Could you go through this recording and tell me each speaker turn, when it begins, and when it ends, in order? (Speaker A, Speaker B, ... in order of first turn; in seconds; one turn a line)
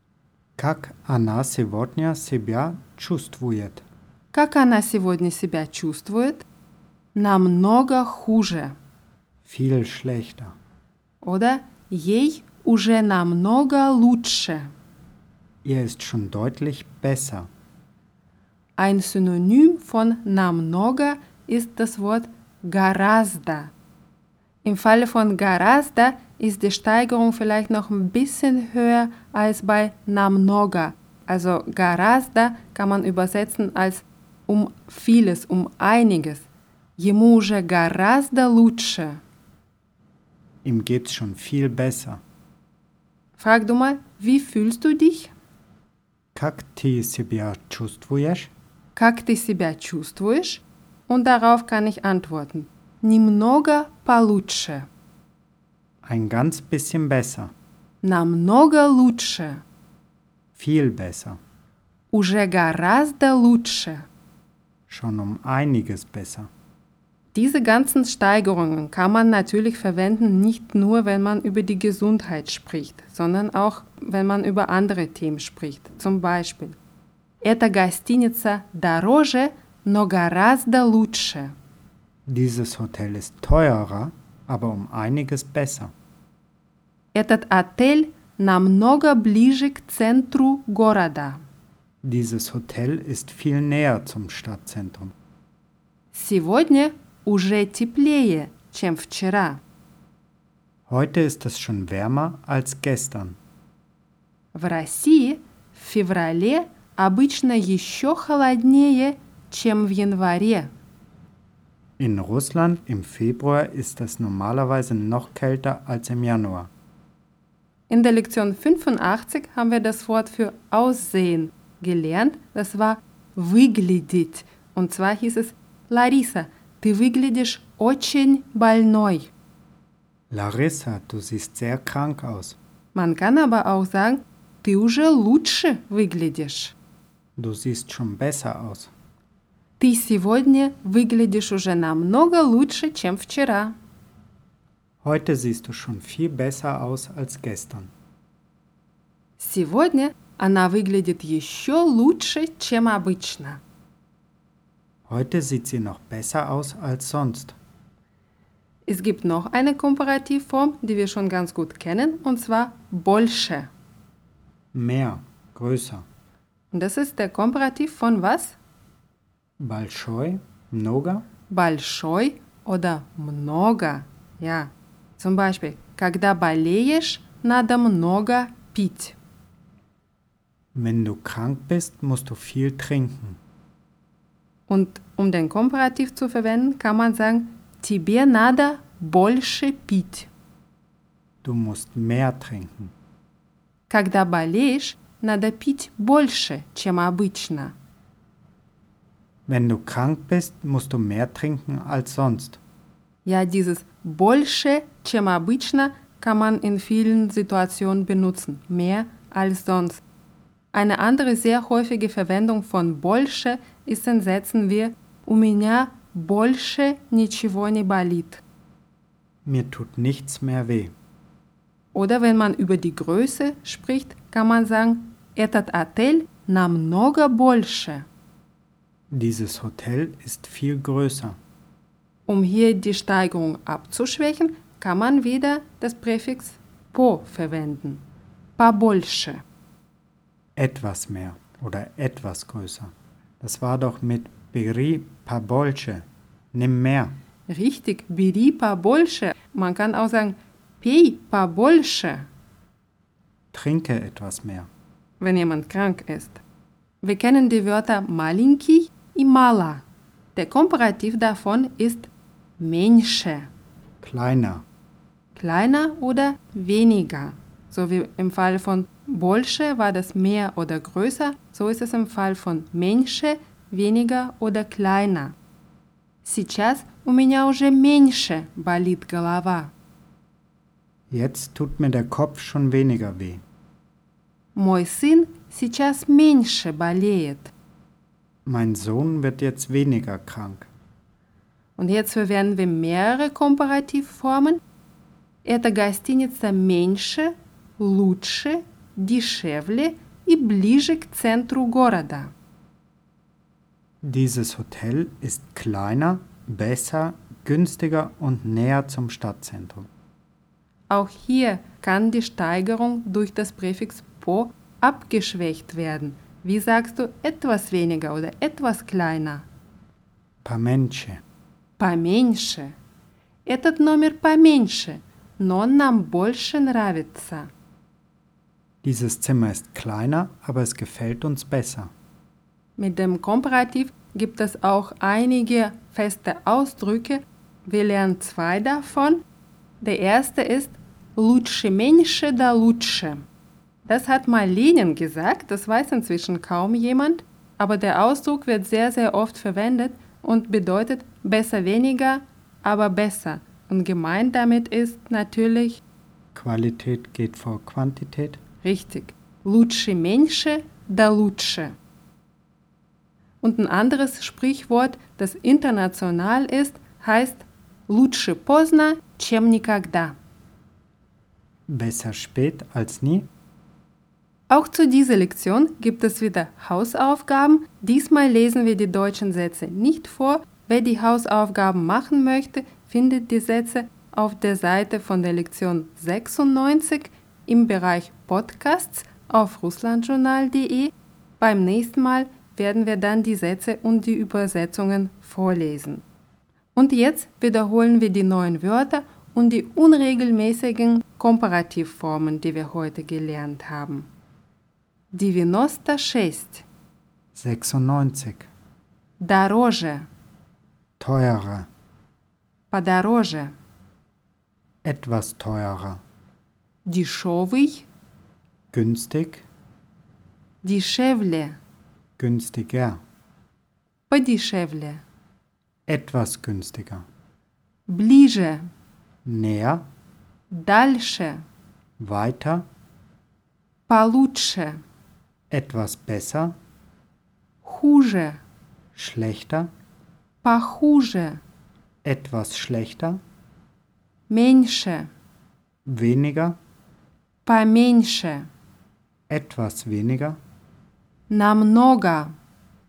Speaker A: 0.6-3.8
Speaker B: 4.3-6.5
Speaker B: 7.1-8.7
Speaker A: 9.4-10.5
Speaker B: 11.2-14.7
Speaker A: 15.6-17.5
Speaker B: 18.8-23.7
Speaker B: 24.6-36.5
Speaker B: 37.0-39.2
Speaker A: 40.6-42.2
Speaker B: 43.4-45.3
Speaker A: 46.3-48.5
Speaker B: 49.0-54.9
Speaker A: 56.0-57.5
Speaker B: 58.0-59.6
Speaker A: 60.6-61.4
Speaker B: 62.1-64.0
Speaker A: 64.9-66.5
Speaker B: 67.3-76.8
Speaker B: 77.4-81.5
Speaker A: 82.3-85.9
Speaker B: 87.1-91.4
Speaker A: 92.0-95.1
Speaker B: 96.1-99.6
Speaker A: 100.9-103.4
Speaker B: 104.5-110.7
Speaker A: 112.0-116.7
Speaker B: 117.9-129.3
Speaker A: 130.3-132.6
Speaker B: 132.9-136.7
Speaker A: 137.4-138.9
Speaker B: 139.8-143.7
Speaker A: 145.0-147.9
Speaker B: 149.4-153.6
Speaker A: 155.1-157.6
Speaker B: 158.9-163.7
Speaker A: 164.7-166.0
Speaker B: 166.7-168.6
Speaker A: 169.6-171.2
Speaker B: 171.5-179.2
Speaker A: 180.7-183.4
Speaker B: 184.7-190.3
Speaker A: 191.4-192.9
Speaker B: 193.9-197.7
Speaker A: 199.5-202.6
Speaker B: 203.2-210.0
Speaker B: 210.7-218.4
Speaker A: 219.4-220.9
Speaker B: 221.9-228.1
Speaker A: 229.1-231.3
Speaker B: 232.3-238.0
Speaker B: 238.6-239.4
Speaker A: 240.6-247.1
Speaker B: 247.5-252.2
Speaker A: 253.5-254.7
Speaker B: 255.2-256.4
Speaker B: 257.0-259.8
Speaker B: 260.4-263.5
Speaker A: 264.0-264.6
Speaker B: 265.4-275.3
Speaker B: 276.2-279.7
Speaker A: 281.1-283.4
Speaker B: 284.6-287.5
Speaker A: 288.4-290.7
Speaker B: 291.8-294.6
Speaker B: 295.4-302.3
Speaker A: 304.0-309.9
Speaker B: 310.9-319.4
Speaker A: 320.4-321.2
Speaker B: 321.8-322.7
Speaker B: 323.4-327.5
Speaker A: 328.8-331.9
Speaker B: 332.8-339.2
Speaker B: 339.8-343.2
Speaker B: 343.9-355.8
Speaker A: 356.3-358.4
Speaker B: 358.6-361.7
Speaker B: 363.4-370.1
Speaker A: 371.7-373.3
Speaker B: 374.5-396.0
Speaker B: 396.7-404.1
Speaker B: 405.1-406.6
Speaker A: 407.3-408.5
Speaker B: 409.2-410.1
Speaker A: 411.0-411.7
Speaker B: 412.7-413.5
Speaker A: 414.8-416.0
Speaker B: 416.9-417.9
Speaker A: 418.7-419.4
Speaker B: 420.6-421.6
Speaker A: 422.2-423.0
Speaker B: 424.1-425.0
Speaker A: 425.9-427.0
Speaker B: 427.9-428.7
Speaker A: 429.2-429.8
Speaker B: 430.5-431.4
Speaker A: 432.0-432.6
Speaker B: 433.9-434.8
Speaker A: 435.5-436.5
Speaker B: 437.6-438.4
Speaker A: 438.9-439.7
Speaker B: 440.4-441.4
Speaker A: 442.0-443.2
Speaker B: 444.3-445.1
Speaker A: 445.9-446.6
Speaker B: 447.4-448.5
Speaker A: 449.3-450.4
Speaker B: 451.3-452.3